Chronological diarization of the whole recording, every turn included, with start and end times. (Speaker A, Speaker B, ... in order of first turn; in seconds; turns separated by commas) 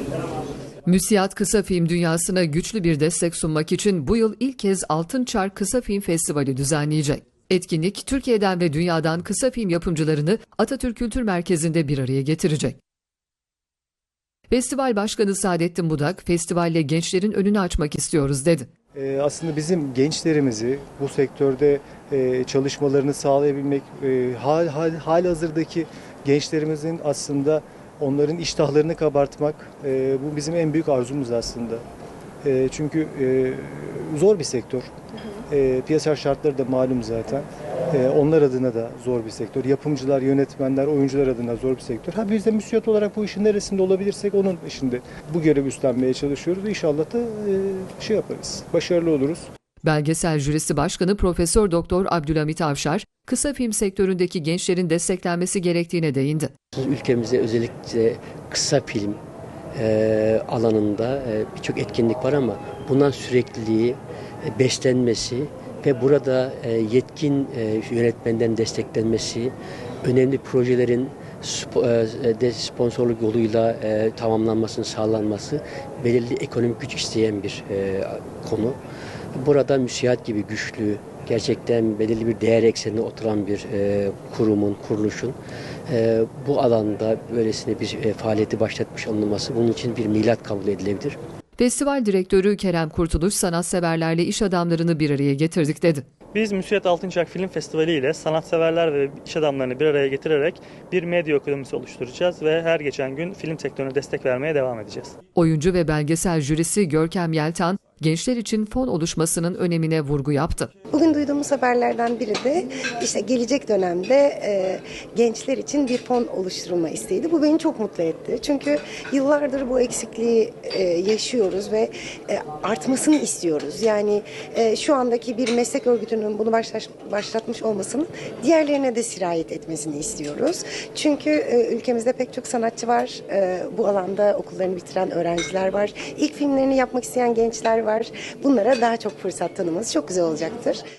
Speaker A: 0.9-12.8, Speaker A: 14.5-18.7, Speaker B: 18.9-31.8, Speaker B: 32.4-34.9, Speaker B: 35.5-49.5, Speaker A: 49.8-56.5, Speaker C: 56.8-59.2, Speaker C: 59.8-78.8, Speaker C: 79.4-85.4, Speaker C: 85.9-91.2, Speaker A: 91.6-96.1, Speaker D: 96.3-105.1, Speaker A: 105.4-110.7, Speaker E: 110.9-140.8